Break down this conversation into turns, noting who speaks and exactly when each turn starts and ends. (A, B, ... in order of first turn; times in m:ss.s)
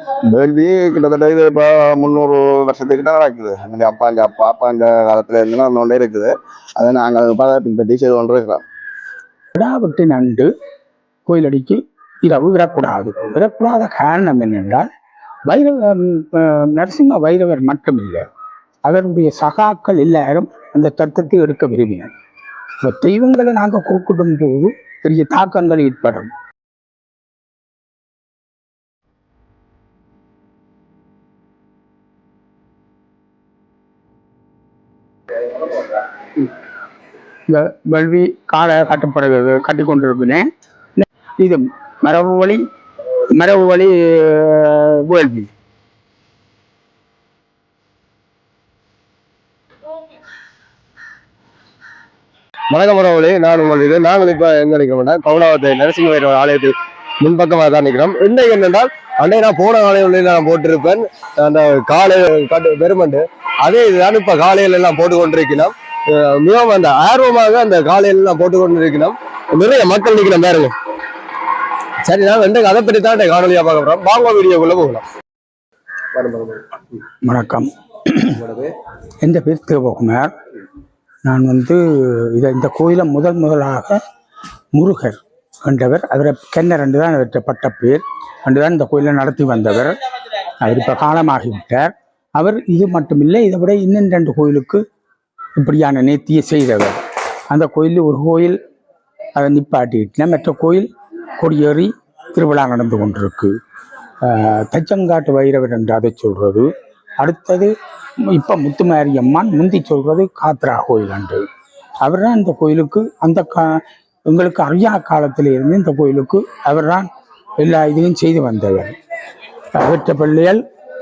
0:00.3-0:08.6 A
0:09.6-0:10.5 B
0:11.3-0:14.9 B
0:15.5-0:18.2 B
0:18.8-0:22.1 B
0:22.8-0:26.3 B
0:37.5-0:42.6 B
0:43.3-0:45.5 B
0:52.7-1:10.7 C
1:12.0-1:15.0 C
1:16.1-1:16.8 C
1:17.2-1:18.4 B
1:18.3-1:18.8 C
1:19.2-1:20.3 B
1:21.2-1:24.0 B
1:24.7-1:30.0 B
1:30.6-1:34.8 B
1:35.6-1:37.0 B
1:37.5-1:38.6 B
1:39.4-1:43.6 B
1:44.2-1:46.7 B
1:47.2-1:47.7 B
1:48.3-1:51.4 B
1:52.0-1:59.0 B
1:59.7-2:00.6 B